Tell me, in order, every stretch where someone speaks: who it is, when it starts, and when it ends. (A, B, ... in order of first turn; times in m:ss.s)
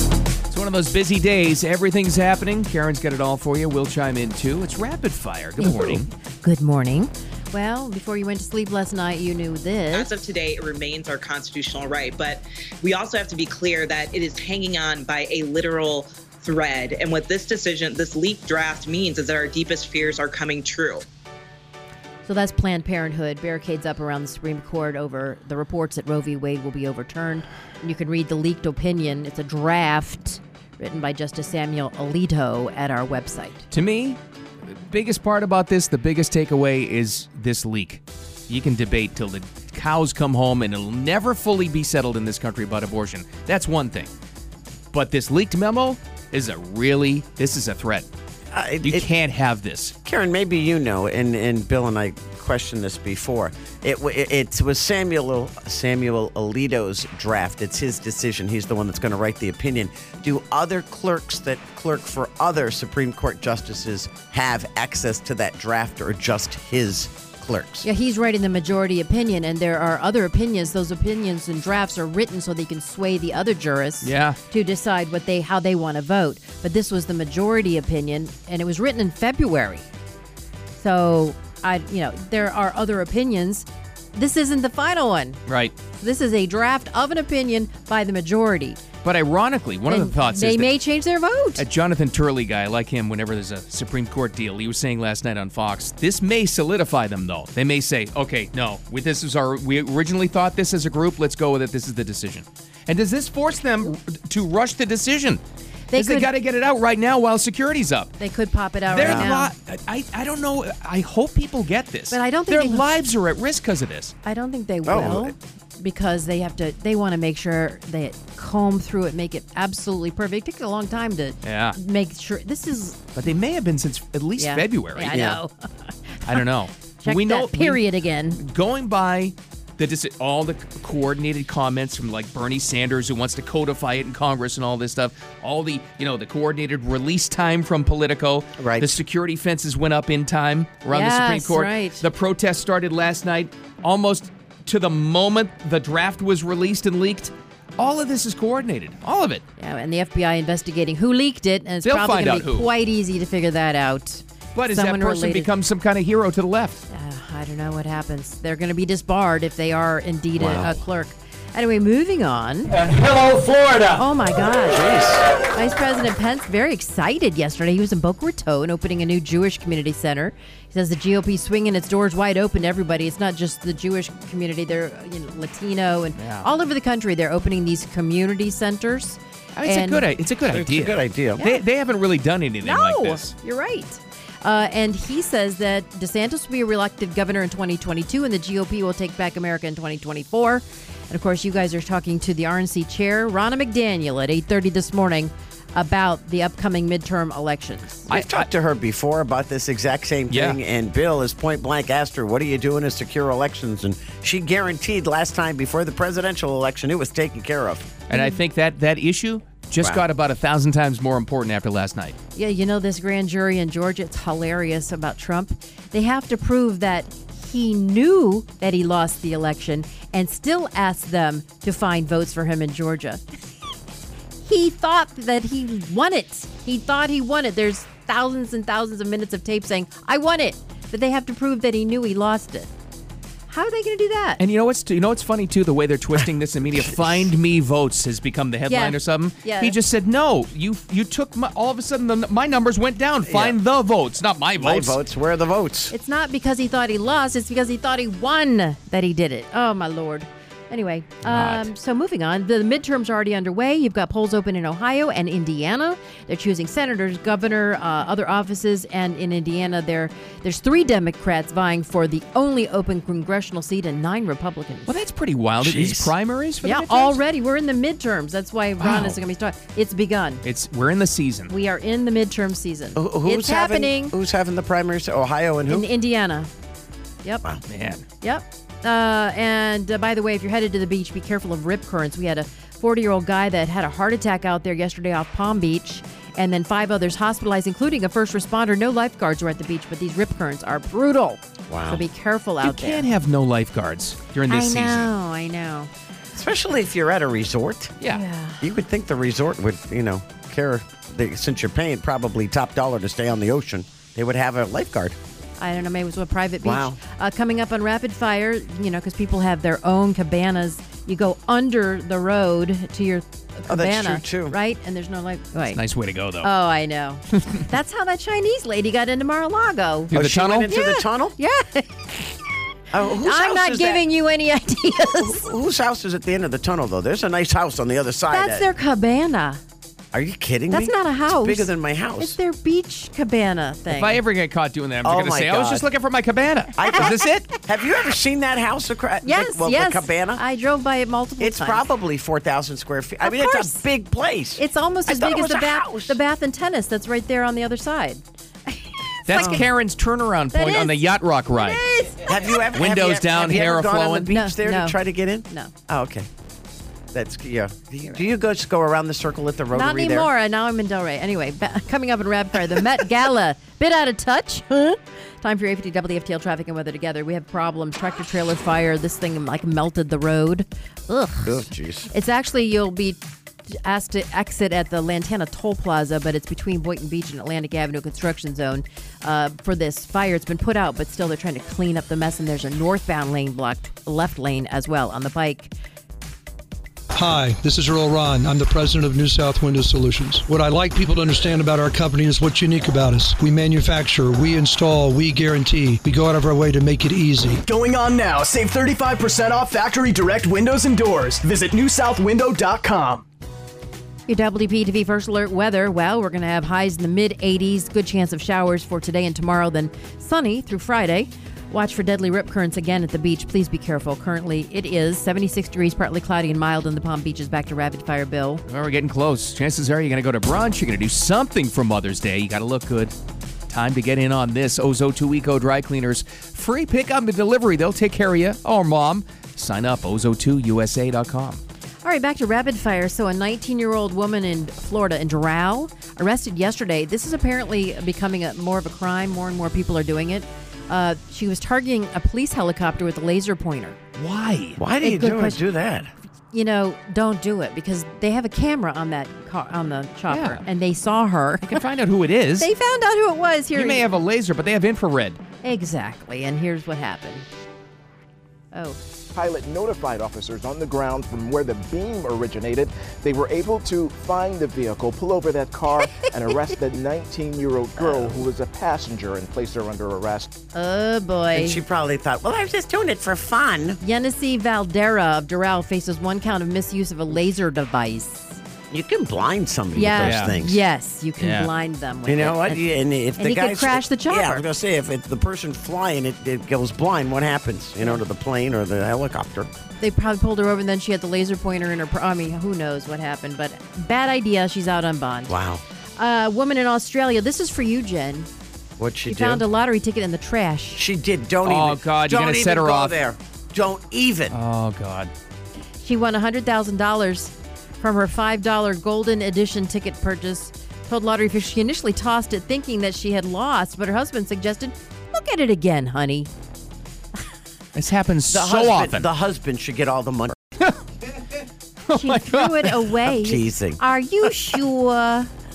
0:00.5-0:06.1 A
0:05.6-0:10.1 B
0:09.9-0:21.1 C
0:22.3-0:33.6 B
0:33.7-0:44.1 A
0:44.9-0:48.1 A
0:48.5-0:49.1 D
0:48.8-0:50.0 A
0:50.0-1:07.9 D
1:07.8-1:19.9 B
1:14.0-1:14.4 A
1:20.8-1:25.4 B
1:25.5-1:25.7 A
1:26.0-1:28.8 B
1:29.0-1:30.8 A
1:29.9-1:31.6 B
1:31.6-1:45.4 A
1:45.9-1:46.3 B
1:46.0-1:48.2 A
1:48.2-1:49.5 B
1:48.9-1:54.1 A
1:49.0-1:49.3 D
1:52.1-1:53.0 B
1:54.2-2:03.0 B
1:54.8-1:55.3 D
2:01.4-2:01.8 A
2:03.2-2:05.4 A
2:04.4-2:06.4 B
2:05.1-2:05.4 D
2:06.3-2:29.4 A
2:07.0-2:08.4 B
2:18.6-2:19.0 D
2:20.9-2:22.0 B
2:29.6-2:35.5 B
2:31.8-2:32.7 A
2:34.6-2:36.8 A
2:36.9-2:42.7 B
2:40.4-2:40.7 D
2:43.9-2:45.0 B
2:44.7-2:45.2 D
2:45.5-3:00.1 B
2:56.2-2:56.5 A
2:59.6-3:03.3 A
3:00.5-3:01.4 D
3:01.4-3:01.6 B
3:02.6-3:18.1 B
3:18.1-3:18.5 A
3:18.1-3:27.9 D
3:20.3-3:20.6 A
3:28.1-3:32.2 A
3:28.1-3:28.4 B
3:32.4-3:43.2 B
3:44.4-3:52.7 B
3:53.5-3:54.4 B
3:54.4-4:05.0 A
3:58.7-3:59.8 B
4:03.3-4:03.6 D
4:04.6-4:05.9 D
4:05.9-4:25.0 B
4:11.2-4:11.7 A
4:24.9-4:27.2 A
4:25.6-4:26.1 D
4:26.6-4:30.4 B
4:28.8-4:29.2 A
4:30.4-4:31.5 A
4:31.5-4:34.2 B
4:33.0-4:35.9 D
4:35.7-4:36.5 B
4:37.7-4:38.0 A
4:38.2-4:53.1 B
4:51.7-4:52.1 D
4:52.6-4:55.1 A
4:54.5-4:55.9 B
4:56.4-4:57.9 D
4:58.1-4:58.7 B
4:58.6-5:05.2 D
5:05.6-5:15.8 B
5:06.6-5:07.0 D
5:13.7-5:14.6 D
5:15.7-5:16.5 A
5:16.4-5:20.1 B
5:20.1-5:20.7 A
5:20.1-5:21.4 D
5:20.7-5:22.0 B
5:22.9-5:24.0 D
5:23.2-5:25.5 B
5:25.2-5:28.7 D
5:28.3-5:29.6 B
5:30.1-5:32.4 D
5:30.7-5:34.2 B
5:33.9-5:37.5 A
5:35.0-5:35.8 D
5:36.8-5:40.4 D
5:39.2-5:41.9 B
5:41.4-5:46.2 D
5:43.2-5:43.8 B
5:44.6-5:49.7 B
5:49.3-5:51.8 A
5:49.3-5:49.7 D
5:50.5-5:52.4 B
5:52.3-5:56.3 D
5:52.8-5:54.4 A
5:54.2-5:55.7 B
5:57.1-6:00.3 D
5:59.7-6:13.2 B
6:11.4-6:12.1 D
6:13.7-6:25.7 B
6:27.2-6:37.6 E
6:37.6-6:43.2 F
6:44.3-6:58.6 B
6:58.7-7:03.2 A
7:03.7-7:11.6 A
7:12.0-7:24.0 B
7:24.2-7:24.8 A
7:24.8-7:26.1 D
7:25.0-7:25.6 B
7:26.5-7:31.8 B
7:30.3-7:30.6 A
7:31.6-7:32.7 A
7:32.6-7:34.1 B
7:33.7-7:35.4 A
7:35.6-7:37.5 B
7:38.7-7:39.0 B
7:39.3-7:50.5 G
7:48.0-7:48.4 D
7:50.7-7:51.8 B
7:51.5-7:54.0 D
7:54.0-7:58.6 B
7:58.9-8:00.8 D
8:00.0-8:02.8 B
8:00.2-8:00.5 A
8:01.4-8:01.7 A
8:02.3-8:09.7 D
8:03.4-8:04.6 B
8:10.0-8:15.6 B
8:15.5-8:15.8 D
8:16.2-8:18.5 B
8:19.0-8:19.7 D
8:19.3-8:21.0 B
8:21.0-8:24.6 D
8:21.6-8:23.2 A
8:24.5-8:25.3 A
8:26.0-8:36.5 B
8:38.0-8:39.3 A
8:38.5-8:40.6 D
8:42.1-8:45.5 B
8:42.1-8:43.2 A
8:43.3-8:44.0 D